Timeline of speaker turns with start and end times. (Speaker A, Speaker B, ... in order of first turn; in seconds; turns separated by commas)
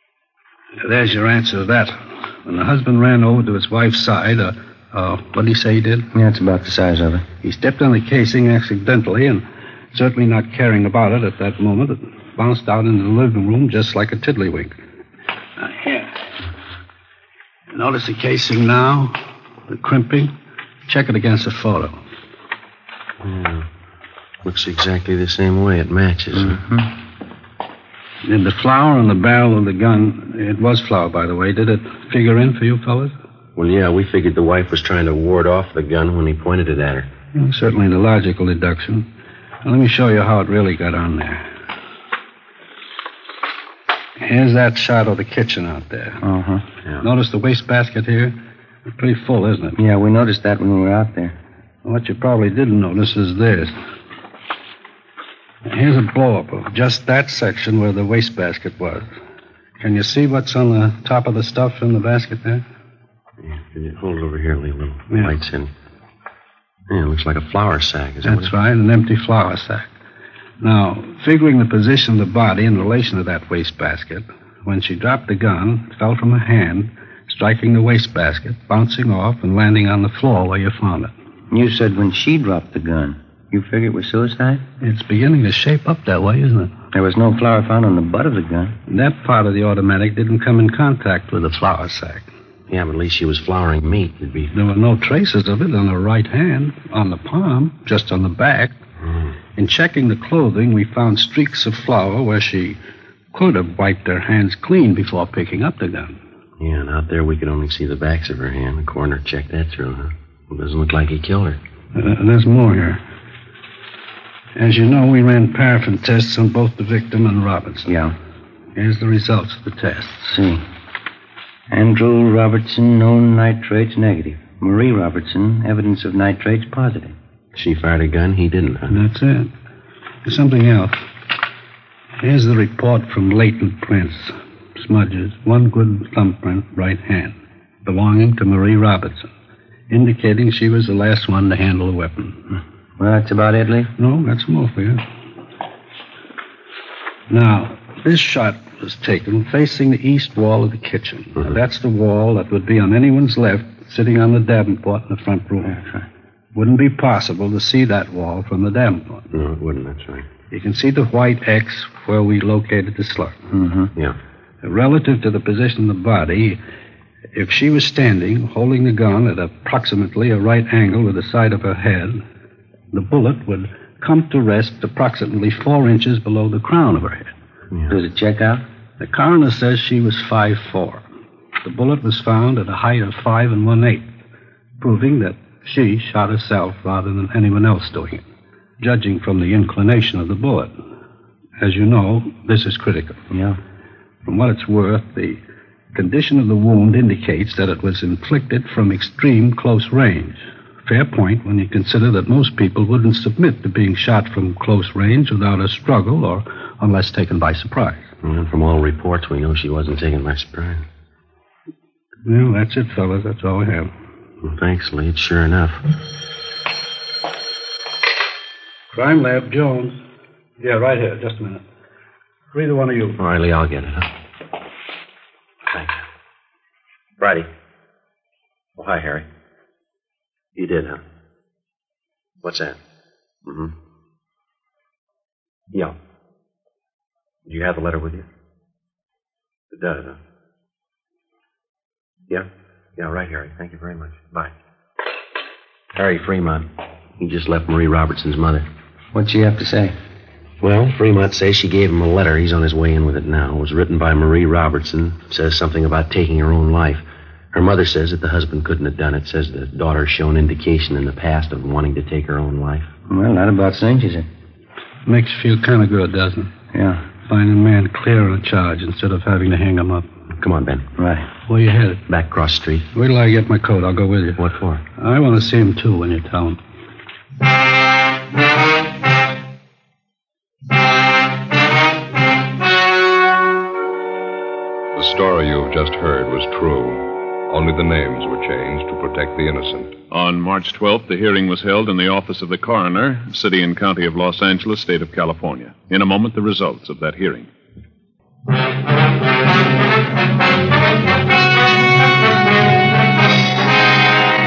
Speaker A: 0.8-6.1, Speaker B: 6.1-7.2, Speaker A: 7.4-14.8, Speaker A: 15.6-16.2, Speaker A: 17.7-20.3, Speaker A: 20.9-22.0, Speaker C: 23.2-23.7, Speaker C: 24.4-26.7, Speaker A: 28.2-33.1, Speaker C: 33.6-37.1, Speaker A: 37.4-39.1, Speaker A: 39.6-41.5, Speaker A: 44.2-46.2, Speaker B: 46.2-46.6, Speaker A: 47.0-48.4, Speaker A: 48.9-49.8, Speaker B: 49.8-51.4, Speaker A: 51.8-53.8, Speaker A: 55.7-59.1, Speaker A: 59.8-62.6, Speaker C: 63.4-65.7, Speaker A: 65.1-65.4, Speaker C: 66.9-68.5, Speaker A: 68.2-69.9, Speaker A: 70.6-81.1, Speaker B: 81.5-84.6, Speaker A: 84.8-86.7, Speaker B: 86.9-88.8, Speaker A: 88.9-92.3, Speaker C: 92.7-94.5, Speaker A: 94.5-98.8, Speaker A: 99.6-102.8, Speaker A: 103.3-106.2, Speaker C: 106.6-111.6, Speaker A: 111.9-113.0, Speaker A: 114.6-117.9, Speaker B: 117.9-118.2, Speaker A: 118.8-120.3, Speaker B: 120.3-120.6, Speaker B: 121.7-127.2, Speaker C: 127.5-129.0, Speaker A: 128.9-129.5, Speaker A: 130.2-131.0, Speaker A: 132.2-139.3, Speaker A: 139.9-142.4, Speaker B: 143.0-143.9, Speaker A: 144.0-145.0, Speaker A: 147.3-155.9, Speaker A: 156.6-159.3, Speaker C: 159.3-160.3, Speaker A: 160.5-163.4, Speaker B: 163.5-163.9, Speaker A: 164.6-166.6, Speaker A: 167.3-172.2, Speaker A: 172.9-177.3, Speaker B: 177.9-178.6, Speaker A: 179.0-181.1, Speaker A: 181.6-184.1, Speaker A: 184.8-188.2, Speaker A: 188.8-190.7, Speaker A: 191.6-193.2, Speaker B: 193.3-193.6, Speaker A: 194.2-195.4, Speaker A: 195.9-208.1, Speaker C: 208.2-210.8, Speaker A: 212.2-213.9, Speaker C: 214.4-215.8, Speaker A: 218.9-220.0, Speaker A: 220.6-221.6, Speaker A: 222.5-223.2, Speaker C: 223.2-224.1, Speaker C: 225.7-226.0, Speaker C: 227.2-227.5, Speaker C: 228.8-229.3, Speaker C: 230.6-231.0, Speaker C: 232.4-232.8, Speaker C: 233.5-233.8, Speaker C: 237.5-238.3, Speaker C: 239.7-240.2, Speaker C: 242.3-244.5, Speaker C: 245.9-248.7, Speaker B: 249.1-250.0, Speaker C: 250.6-262.9, Speaker B: 263.1-264.3, Speaker A: 265.1-266.5, Speaker B: 266.7-267.1, Speaker A: 267.2-270.1, Speaker C: 270.4-270.9, Speaker B: 271.0-271.3, Speaker A: 271.5-272.0, Speaker C: 272.1-272.9, Speaker A: 272.9-274.4, Speaker C: 274.4-274.8, Speaker A: 275.0-276.6, Speaker D: 285.0-290.0, Speaker E: 290.1-297.5